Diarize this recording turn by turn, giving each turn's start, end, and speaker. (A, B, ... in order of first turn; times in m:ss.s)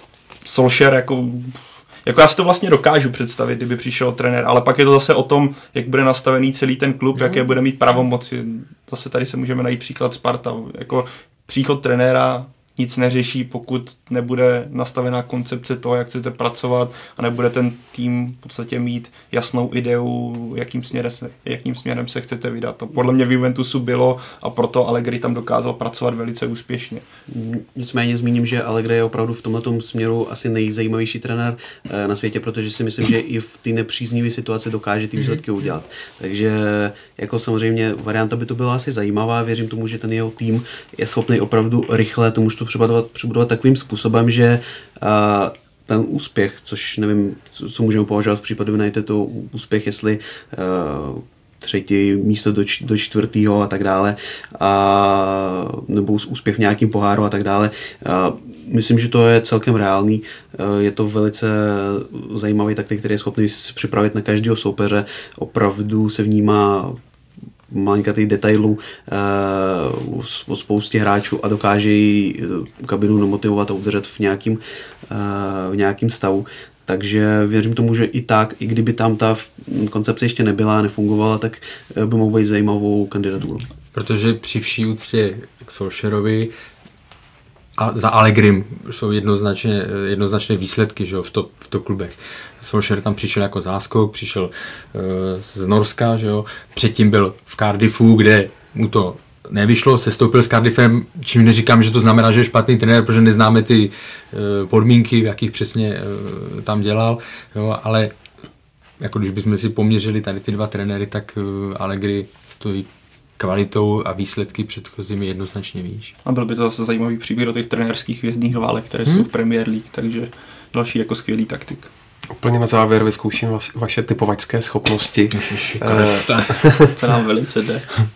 0:00.4-0:27.0 A
0:07.2-0:07.4 B
0:27.3-1:07.0 C
1:07.7-1:23.7 C
1:23.9-1:26.5 B
1:27.8-1:48.1 B
1:49.0-1:56.1 B
1:56.2-2:01.9 A
2:02.4-2:07.0 D
2:05.3-2:06.7 B
2:07.0-2:07.9 A